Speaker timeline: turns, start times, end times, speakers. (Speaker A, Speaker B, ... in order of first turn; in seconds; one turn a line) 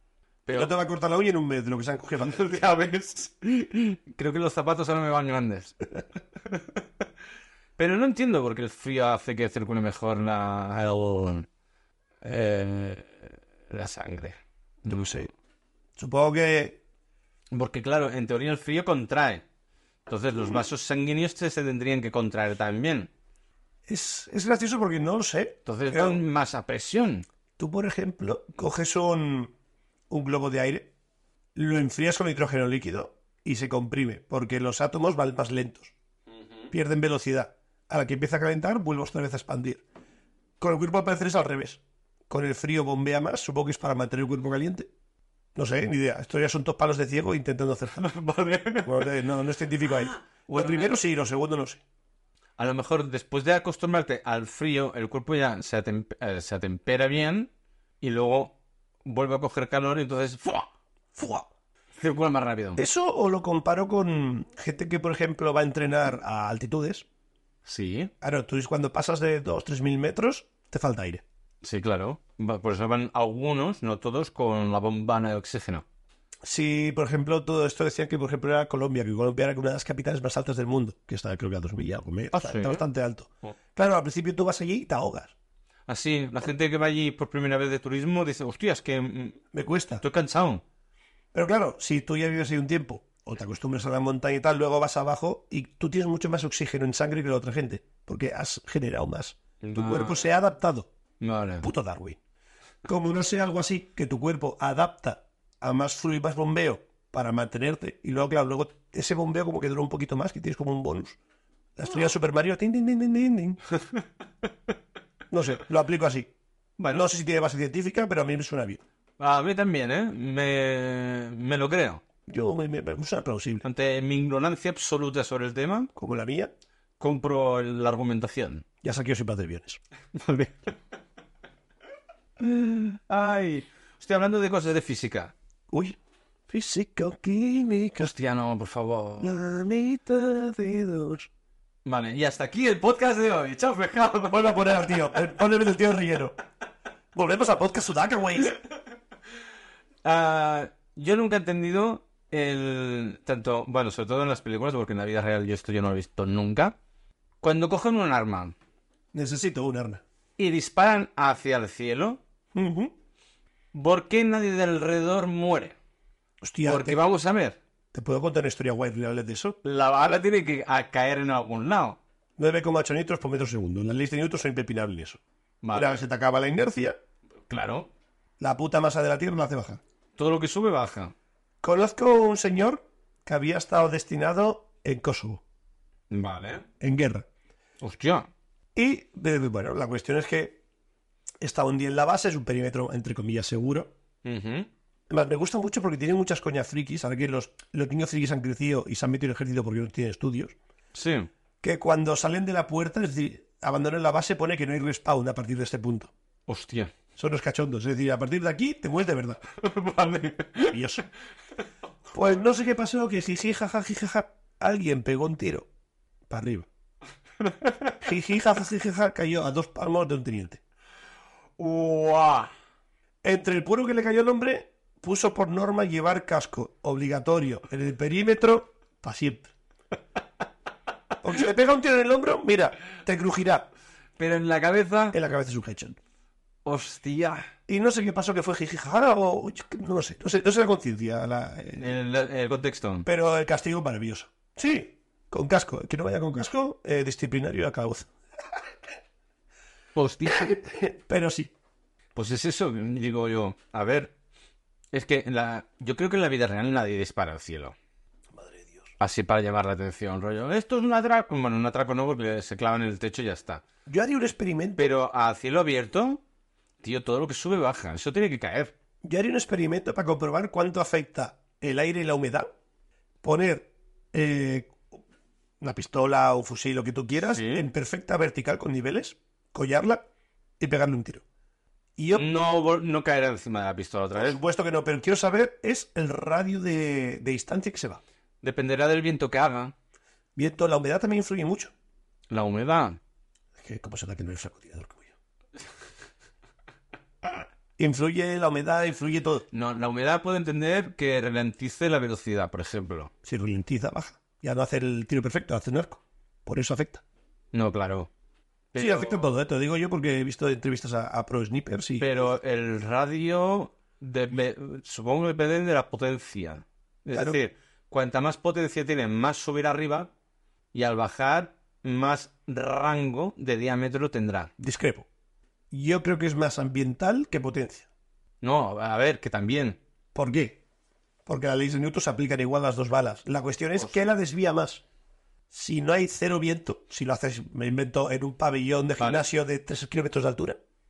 Speaker A: 0.5-0.7
Speaker B: 0.5-2.5
Speaker A: 2.2-5.8
Speaker A: 7.8-11.5
Speaker A: 12.2-15.3
Speaker B: 14.9-15.3
Speaker B: 16.0-16.8
Speaker A: 17.5-19.4
Speaker A: 20.1-23.1
Speaker B: 23.9-26.2
Speaker A: 25.7-27.2
Speaker B: 27.6-29.5
Speaker B: 30.1-30.9
Speaker B: 31.6-35.9
Speaker A: 36.3-36.7
Speaker B: 36.7-39.8
Speaker B: 40.6-44.9
Speaker B: 45.6-48.0
Speaker A: 48.0-49.1
Speaker B: 48.8-51.8
Speaker A: 50.5-50.9
Speaker A: 52.6-57.5
Speaker A: 58.0-60.7
Speaker B: 61.1-61.5
Speaker A: 62.0-62.8
Speaker B: 62.8-67.1
Speaker A: 67.7-68.1
Speaker B: 68.2-71.2
Speaker A: 71.6-75.8
Speaker B: 76.4-85.3
Speaker A: 82.3-82.8
Speaker A: 85.9-89.4
Speaker B: 89.5-90.0
Speaker A: 90.0-90.6
Speaker B: 91.3-100.9
Speaker A: 99.6-100.3
Speaker A: 101.2-101.7
Speaker B: 101.6-102.2
Speaker B: 102.8-111.2
Speaker B: 111.8-113.6
Speaker B: 115.3-116.3
Speaker A: 116.8-117.0
Speaker B: 116.9-118.8
Speaker A: 119.2-122.0
Speaker B: 122.3-123.7
Speaker A: 123.6-125.9
Speaker B: 126.0-126.5
Speaker A: 127.0-128.7
Speaker B: 128.8-129.8
Speaker A: 130.1-130.7
Speaker A: 132.4-135.3
Speaker B: 135.7-136.0
Speaker B: 136.5-138.1
Speaker A: 138.0-139.4
Speaker B: 139.2-141.3
Speaker A: 141.8-144.8
Speaker B: 144.3-146.3
Speaker B: 147.1-148.6
Speaker A: 150.0-156.8
Speaker A: 157.4-158.6
Speaker B: 159.1-160.0
Speaker A: 160.4-162.2
Speaker B: 162.5-162.9
Speaker A: 163.7-165.8
Speaker B: 166.4-167.0
Speaker A: 166.7-167.6
Speaker B: 167.9-169.6
Speaker A: 169.6-172.0
Speaker B: 172.4-175.2
Speaker A: 175.6-176.0
Speaker B: 175.7-177.0
Speaker A: 177.5-177.9
Speaker B: 178.4-179.8
Speaker A: 180.2-181.1
Speaker B: 181.6-185.4
Speaker A: 186.1-186.7
Speaker B: 186.8-187.3
Speaker A: 187.8-188.3
Speaker B: 188.8-190.6
Speaker B: 191.4-193.9
Speaker A: 194.2-194.7
Speaker B: 195.1-200.6
Speaker A: 200.9-201.3
Speaker B: 201.6-206.1
Speaker A: 206.5-206.9
Speaker B: 207.2-209.4
Speaker A: 209.6-210.8
Speaker B: 210.7-211.1
Speaker B: 212.1-215.7
Speaker B: 216.3-216.7
Speaker A: 217.4-218.0
Speaker B: 218.0-220.6
Speaker A: 221.6-222.5
Speaker B: 223.2-229.5
Speaker B: 231.2-233.7
Speaker A: 234.2-235.2
Speaker B: 235.1-236.0
Speaker A: 236.7-237.5
Speaker B: 237.7-241.9
Speaker A: 241.8-243.1
Speaker B: 243.1-248.1
Speaker A: 249.9-250.6
Speaker B: 250.3-251.5
Speaker A: 252.2-254.1
Speaker A: 254.9-257.8
Speaker B: 258.3-258.9
Speaker A: 259.0-263.6
Speaker B: 263.9-264.9
Speaker A: 264.8-266.2
Speaker A: 266.8-268.7
Speaker B: 269.0-272.5
Speaker B: 273.2-274.9
Speaker B: 275.6-280.0
Speaker A: 277.2-277.7
Speaker B: 280.6-281.2
Speaker B: 282.0-282.3
Speaker A: 282.1-284.4
Speaker B: 284.2-288.0
Speaker A: 288.4-289.7
Speaker B: 290.4-291.7
Speaker A: 292.3-293.0
Speaker B: 293.6-295.1
Speaker B: 297.8-299.5
Speaker A: 299.5-303.1
Speaker B: 303.2-307.0
Speaker A: 307.5-308.1
Speaker A: 308.7-309.2
Speaker B: 308.8-312.2
Speaker A: 312.0-320.1
Speaker B: 317.1-317.4
Speaker A: 320.7-324.5
Speaker B: 324.6-325.1
Speaker B: 325.7-327.9
Speaker A: 328.4-329.8
Speaker B: 330.1-330.6
Speaker B: 331.3-334.8
Speaker B: 335.5-340.6